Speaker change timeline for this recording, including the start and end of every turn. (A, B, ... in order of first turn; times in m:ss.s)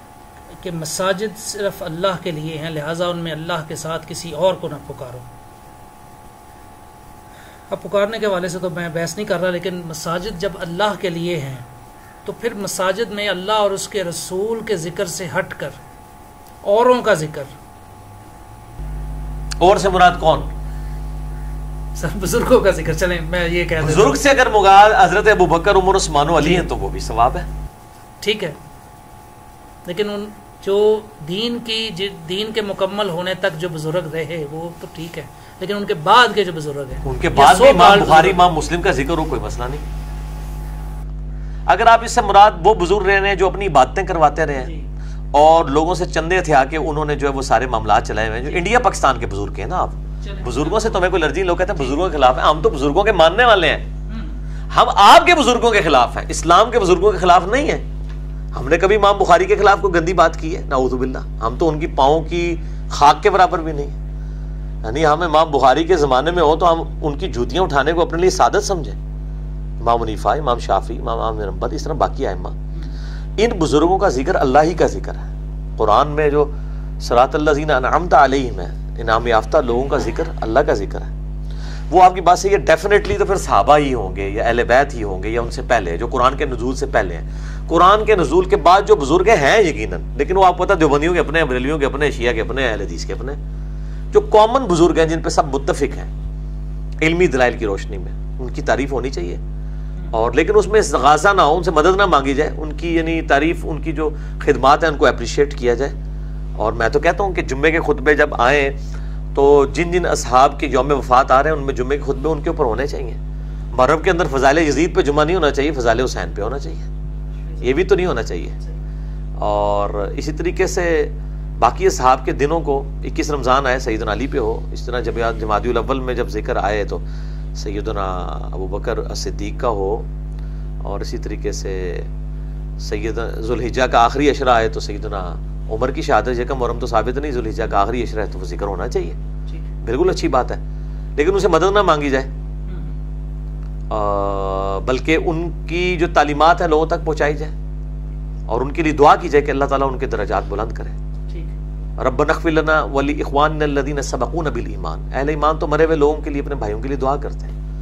0:00.6-0:05.2 A
0:07.7-0:11.7 A
0:12.2-0:15.8 A
0:16.6-0:17.5 A
0:19.6-0:20.5 B
0:22.0-0:24.2 A
0:23.8-0:27.4 B
0:26.4-0:26.7 A
0:28.2-0:28.6 A
0:29.8-0:38.4 A
0:37.0-0:39.8 B
0:41.7-0:44.7 B
0:44.6-0:44.9 A
0:45.3-0:53.8 B
0:50.2-0:51.2 A
0:51.8-0:52.0 A
0:54.1-0:54.4 A
0:54.7-0:57.8 B
0:58.5-1:04.0 B
1:04.8-1:09.0 B
1:09.8-1:12.6 B
1:13.4-1:16.5 B
1:17.0-1:21.1 B
1:21.9-1:33.4 B
1:34.1-1:36.1 B
1:37.0-1:39.4 B
1:40.1-1:45.9 B
1:46.6-1:48.8 B
1:49.3-1:53.2 B
1:53.7-1:56.9 B
1:57.4-1:57.8 A
1:57.6-1:58.5 B
1:59.4-2:07.0 B
2:07.6-2:10.1 B
2:10.8-2:12.1 B
2:12.8-2:19.2 B
2:19.8-2:20.6 B
2:21.2-2:22.3 B
2:22.7-2:22.9 A
2:23.9-2:27.5 B
2:28.5-2:31.0 B
2:31.3-2:31.5 A
2:32.0-2:37.5 B